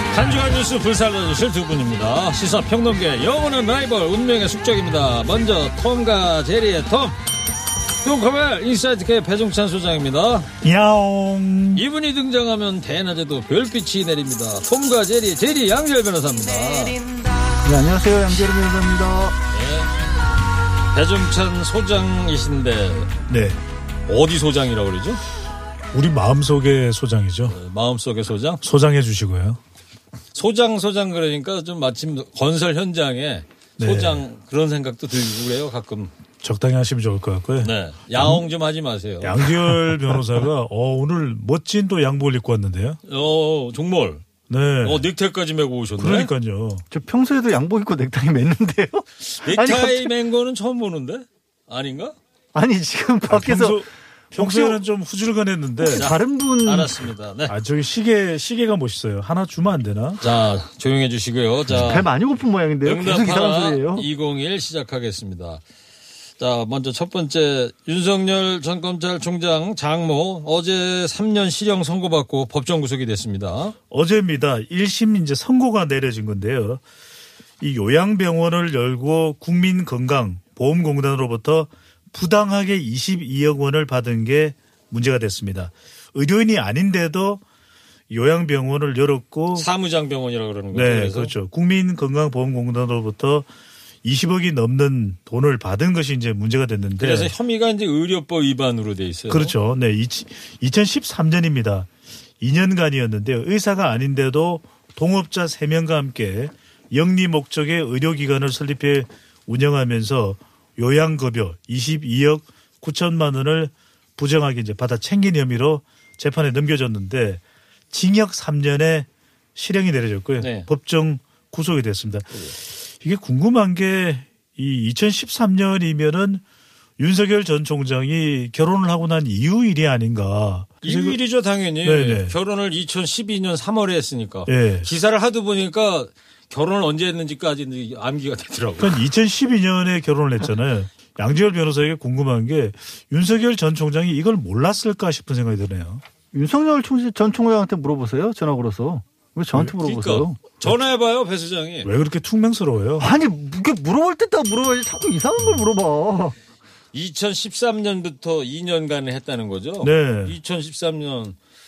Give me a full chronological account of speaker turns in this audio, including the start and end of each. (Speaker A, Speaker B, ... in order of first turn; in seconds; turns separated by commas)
Speaker A: 0.1-7.2, Speaker B: 0.1-0.4, Speaker A: 8.0-10.5, Speaker B: 10.6-11.8, Speaker A: 11.7-17.0, Speaker C: 17.6-19.4, Speaker A: 19.5-19.9, Speaker A: 20.9-23.1, Speaker B: 23.3-23.6, Speaker A: 24.1-25.2, Speaker B: 25.9-27.5, Speaker A: 27.5-28.6, Speaker B: 28.6-29.6, Speaker A: 30.3-36.1, Speaker B: 33.8-34.2, Speaker B: 36.4-38.4, Speaker A: 37.6-39.5, Speaker B: 39.2-43.0, Speaker A: 43.1-44.2, Speaker B: 44.5-45.0, Speaker A: 44.8-46.3, Speaker B: 46.0-46.8, Speaker C: 46.9-50.1, Speaker A: 49.3-52.1, Speaker C: 52.5-54.8, Speaker B: 53.2-56.1, Speaker C: 55.8-57.0, Speaker A: 55.9-57.5, Speaker B: 57.5-60.2, Speaker A: 60.2-62.0, Speaker C: 61.7-64.1, Speaker A: 62.8-65.6, Speaker A: 66.4-73.7, Speaker B: 73.9-76.8, Speaker B: 77.6-87.4, Speaker B: 88.1-89.7, Speaker A: 89.5-91.3, Speaker B: 90.7-93.5, Speaker B: 94.0-97.3, Speaker A: 97.0-99.5, Speaker B: 99.3-101.9, Speaker B: 102.4-126.4, Speaker A: 120.4-120.7, Speaker B: 127.0-131.2, Speaker A: 130.8-139.0, Speaker B: 131.8-132.3, Speaker B: 134.4-134.9, Speaker B: 138.8-146.0, Speaker C: 146.3-150.4, Speaker A: 149.6-151.9, Speaker B: 151.8-153.1, Speaker C: 153.0-156.4, Speaker B: 155.4-155.6, Speaker A: 156.9-161.3, Speaker B: 159.8-160.3